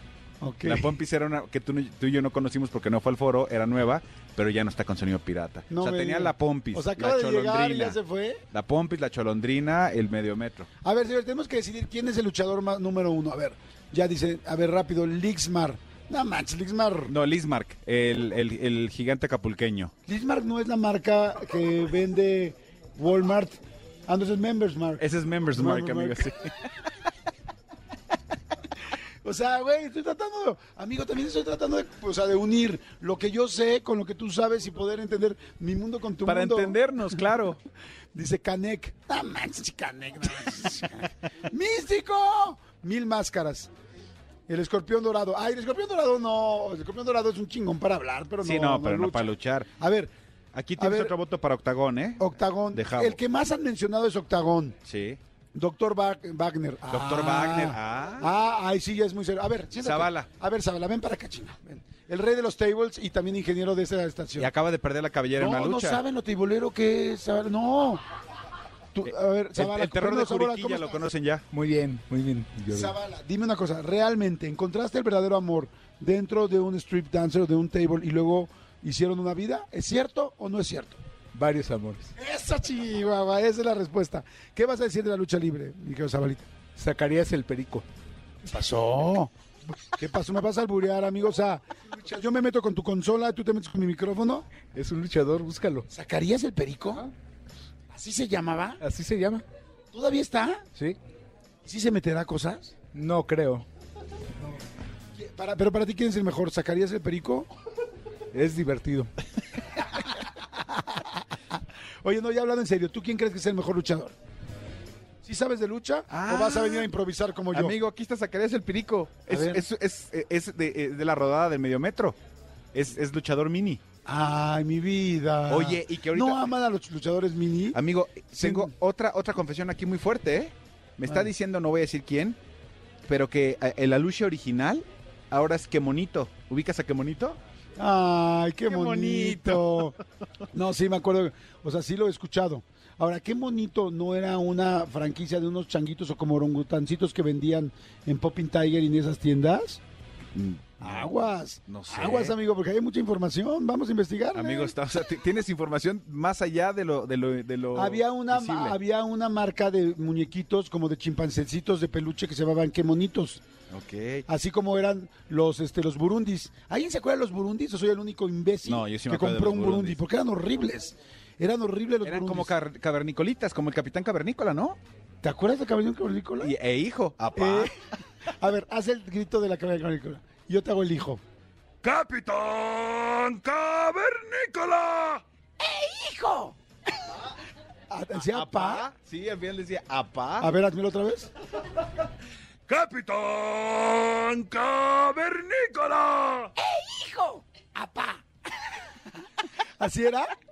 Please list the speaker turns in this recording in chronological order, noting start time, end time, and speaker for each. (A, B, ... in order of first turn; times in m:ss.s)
0:00.4-0:01.0 A
0:00.6-0:08.0 B
0:05.7-0:08.4 A
0:08.5-0:10.7 B
0:10.8-0:17.1 A
0:17.1-0:19.9 B
0:20.1-0:26.3 A
0:25.0-0:26.5 B
0:29.2-0:37.2 A
0:36.2-0:37.6 B
0:38.1-0:43.7 A
0:44.5-0:50.1 A
0:48.4-0:49.7 B
0:50.5-0:53.2 B
0:50.8-0:51.2 A
0:52.2-0:54.8 A
0:54.8-0:55.2 B
0:55.6-1:04.5 A
0:56.9-0:58.3 B
0:59.8-1:00.3 B
1:04.4-1:06.0 B
1:05.4-1:08.0 A
1:08.9-1:11.1 A
1:09.0-1:11.4 B
1:11.5-1:13.0 C
1:12.7-1:21.0 A
1:21.4-1:22.1 C
1:22.2-1:26.5 A
1:26.8-1:27.9 C
1:28.4-1:29.3 A
1:29.9-1:34.5 A
1:34.7-1:35.9 C
1:35.9-1:37.1 A
1:37.9-1:38.8 A
1:38.8-1:39.4 C
1:39.9-1:40.7 A
1:41.6-1:42.7 A
1:42.9-1:43.7 C
1:45.2-1:47.5 A
1:48.3-1:49.1 C
1:52.0-1:54.2 A
1:55.2-1:57.8 A
1:56.1-1:56.9 B
1:57.5-2:02.2 B
1:59.3-1:59.7 A
2:02.7-2:03.8 B
2:04.0-2:07.8 A
2:05.5-2:06.6 B
2:07.7-2:12.4 B
2:08.4-2:08.7 A
2:11.1-2:11.3 A
2:13.1-2:17.4 B
2:17.8-2:20.0 A
2:18.6-2:20.0 B
2:20.5-2:29.8 A
2:30.3-2:32.4 B
2:30.8-2:34.7 A
2:34.3-2:38.8 B
2:37.7-2:43.4 A
2:43.7-2:44.3 B
2:44.3-2:52.5 A
2:48.6-2:50.0 B
2:52.0-2:54.8 B
2:55.2-2:56.5 A
2:56.4-2:57.8 B
2:57.4-2:57.7 A
2:58.4-3:01.2 A
3:01.8-3:05.2 B
3:05.6-3:06.6 A
3:07.9-3:08.9 A
3:08.1-3:10.5 B
3:10.4-3:11.3 A
3:12.7-3:16.5 B
3:16.6-3:18.2 A
3:19.6-3:20.4 A